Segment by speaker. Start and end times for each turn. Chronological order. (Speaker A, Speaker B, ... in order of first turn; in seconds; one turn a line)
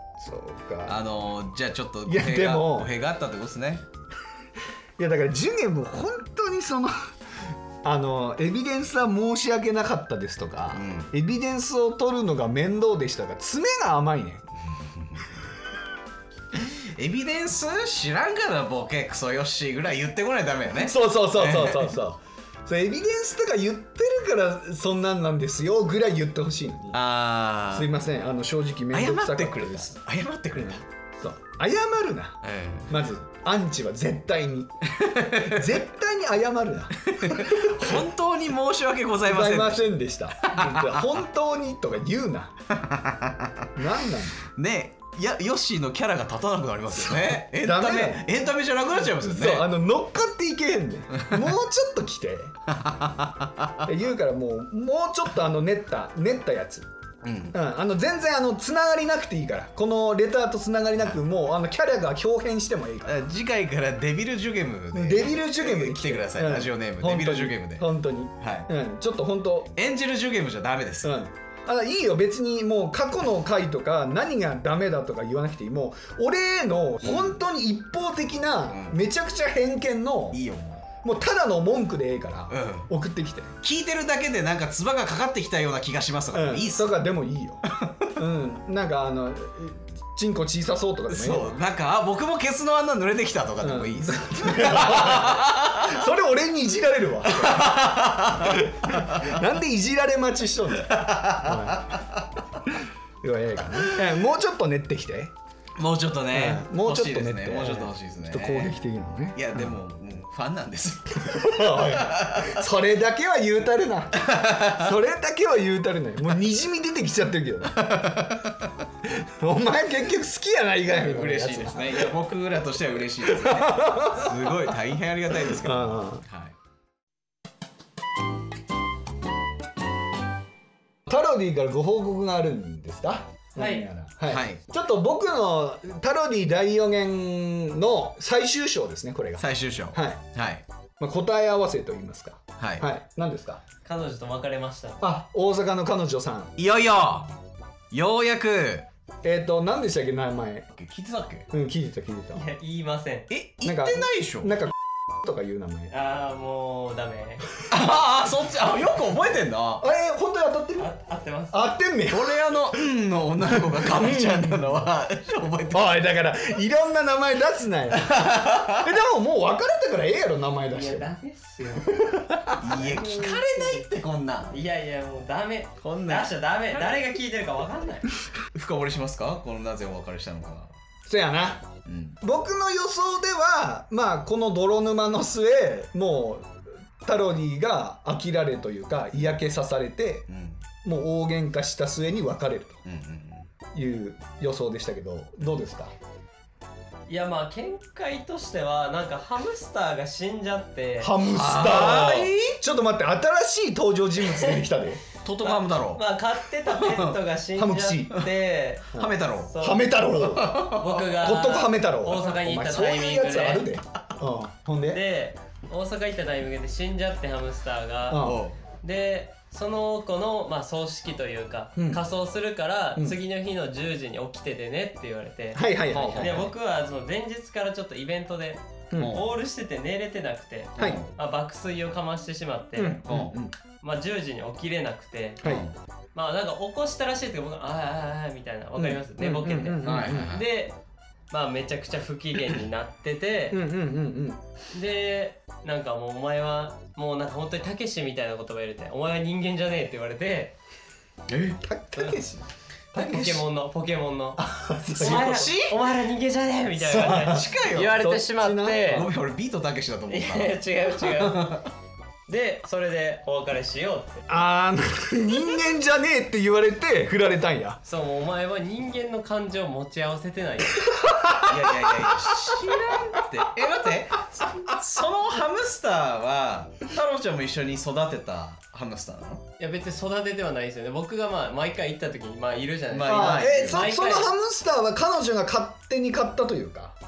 Speaker A: 0.2-1.0
Speaker B: 0.8-3.8
Speaker A: 2.0-2.9
Speaker A: 5.0-6.9
Speaker A: 7.8-14.4
Speaker B: 10.7-11.1
Speaker B: 14.7-15.3
Speaker B: 16.5-21.9
Speaker A: 20.7-27.0
Speaker B: 26.9-27.9
Speaker A: 27.7-29.9
Speaker B: 28.9-30.8
Speaker A: 30.5-34.7
Speaker B: 32.4-32.9
Speaker B: 34.9-35.7
Speaker A: 35.3-38.0
Speaker B: 37.0-39.9
Speaker A: 39.2-42.5
Speaker B: 40.4-41.2
Speaker B: 42.7-43.7
Speaker A: 43.8-44.4
Speaker B: 44.4-49.7
Speaker A: 46.9-48.3
Speaker A: 48.9-52.5
Speaker B: 52.7-53.9
Speaker A: 53.8-56.9
Speaker B: 57.2-57.6
Speaker A: 57.5-63.1
Speaker B: 63.0-67.9
Speaker A: 64.9-69.7
Speaker B: 68.4-68.7
Speaker B: 69.7-71.1
Speaker A: 71.0-80.4
Speaker B: 77.0-77.4
Speaker B: 78.7-79.0
Speaker B: 80.3-80.8
Speaker A: 81.0-83.5
Speaker B: 82.5-82.9
Speaker B: 83.6-87.0
Speaker A: 86.3-91.6
Speaker B: 87.7-88.1
Speaker B: 91.1-96.0
Speaker A: 93.6-102.0
Speaker B: 97.2-99.5
Speaker B: 100.7-102.4
Speaker A: 103.2-105.3
Speaker B: 105.8-108.8
Speaker A: 106.3-109.8
Speaker B: 109.3-112.6
Speaker A: 111.2-118.3
Speaker B: 114.1-114.9
Speaker B: 117.7-118.7
Speaker A: 119.0-122.1
Speaker B: 120.9-126.5
Speaker A: 123.2-124.8
Speaker A: 125.4-126.2
Speaker A: 131.1-140.2
Speaker C: 133.6-133.8
Speaker B: 134.2-134.6
Speaker B: 139.4-140.6
Speaker A: 141.0-143.6
Speaker B: 142.6-142.9
Speaker C: 143.8-145.0
Speaker A: 145.0-146.5
Speaker B: 146.6-147.3
Speaker B: 147.9-148.8
Speaker A: 149.2-150.7
Speaker B: 150.7-151.5
Speaker A: 151.5-152.4
Speaker C: 152.3-153.3
Speaker B: 153.3-154.7
Speaker A: 153.6-155.9
Speaker C: 155.9-157.5
Speaker B: 157.7-159.8
Speaker A: 159.8-160.9
Speaker C: 160.8-161.7
Speaker A: 161.5-162.4
Speaker B: 162.1-165.9
Speaker A: 163.5-164.8
Speaker A: 165.7-171.1
Speaker B: 167.9-168.9
Speaker C: 170.7-172.0
Speaker A: 171.8-172.8
Speaker B: 172.6-174.6
Speaker C: 172.8-173.8
Speaker C: 174.5-178.1
Speaker B: 175.8-176.9
Speaker B: 178.5-180.7
Speaker A: 181.1-181.7
Speaker B: 181.8-182.2
Speaker A: 182.2-190.3
Speaker B: 190.3-190.6
Speaker A: 190.8-192.8
Speaker B: 192.8-193.5
Speaker A: 193.7-195.9
Speaker C: 197.1-201.2
Speaker A: 201.0-205.0
Speaker B: 201.3-202.6
Speaker B: 205.2-206.1
Speaker C: 205.4-208.9
Speaker B: 206.7-207.1
Speaker A: 207.6-208.2
Speaker B: 208.9-209.5
Speaker A: 208.9-215.0
Speaker C: 209.5-209.9
Speaker B: 210.2-211.2
Speaker C: 210.7-213.7
Speaker C: 214.9-218.2
Speaker A: 218.1-218.4
Speaker B: 218.2-218.6
Speaker C: 218.8-233.0
Speaker A: 221.8-222.0
Speaker A: 225.5-226.5
Speaker B: 225.9-226.5
Speaker A: 228.9-229.2
Speaker B: 228.9-229.2
Speaker B: 230.8-231.1
Speaker A: 232.8-233.5
Speaker B: 233.1-233.3
Speaker C: 233.8-235.6
Speaker B: 235.4-235.7
Speaker C: 236.1-240.8
Speaker A: 238.8-240.3
Speaker B: 239.8-240.5
Speaker C: 241.3-243.6
Speaker A: 243.5-244.4
Speaker C: 244.7-250.5
Speaker B: 251.3-251.6
Speaker A: 251.6-253.4
Speaker C: 252.9-254.4
Speaker A: 254.4-255.5
Speaker B: 254.9-255.8
Speaker C: 254.9-259.1
Speaker A: 256.8-259.1
Speaker B: 257.0-258.1
Speaker B: 258.9-261.7
Speaker C: 260.1-261.6
Speaker C: 262.3-264.3
Speaker A: 264.3-267.8
Speaker C: 267.9-270.8
Speaker A: 270.8-273.0
Speaker B: 271.4-279.4
Speaker C: 279.6-284.3
Speaker B: 282.9-283.9
Speaker A: 283.0-286.9